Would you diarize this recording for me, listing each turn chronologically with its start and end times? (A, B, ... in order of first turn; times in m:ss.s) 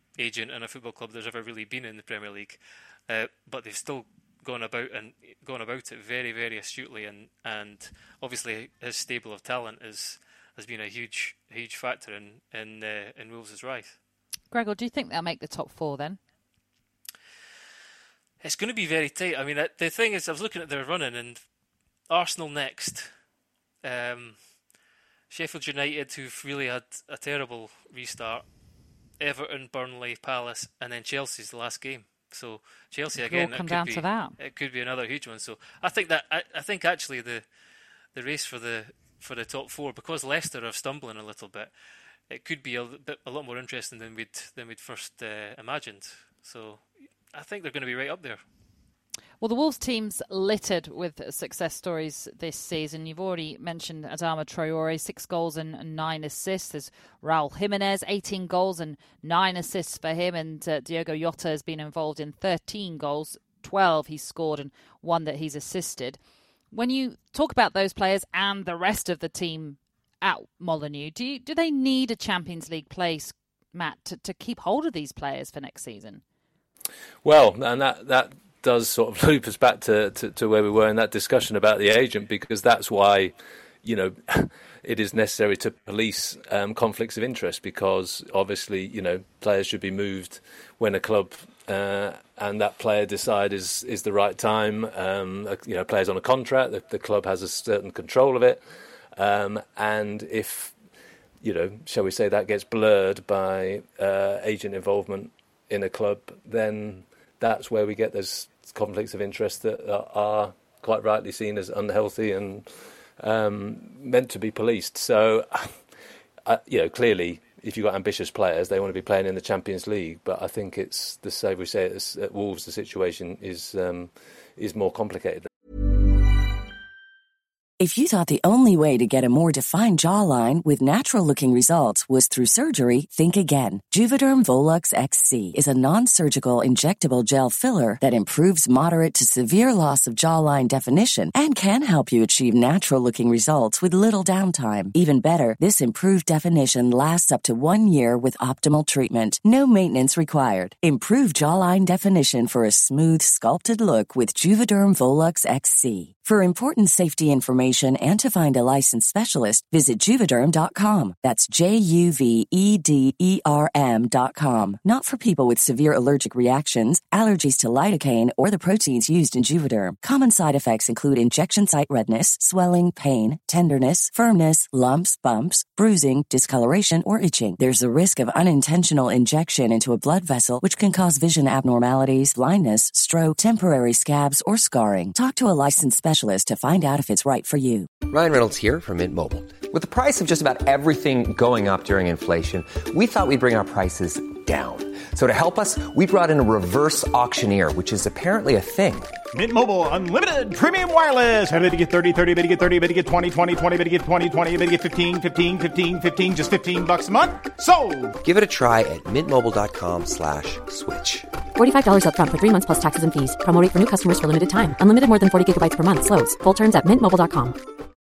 0:00.2-0:14.0 A
0:14.5-0:16.2 B
0:18.4-0:21.4 A
0:22.1-0:23.1 A
0:23.8-0:24.6 A
0:25.3-0:28.4 A
0:29.2-0:37.4 A
0:33.2-0:34.4 B
0:38.1-0:41.7 A
0:42.3-0:48.4 A
0:49.4-1:06.2 B
1:06.7-1:16.2 B
1:17.2-1:38.6 C
1:39.1-1:40.8 C
1:41.4-1:55.8 C
1:56.4-2:05.5 C
2:07.8-3:07.9 D
3:08.0-3:19.1 E
3:19.3-3:28.2 F
3:28.2-3:31.3 E
3:31.6-3:37.6 G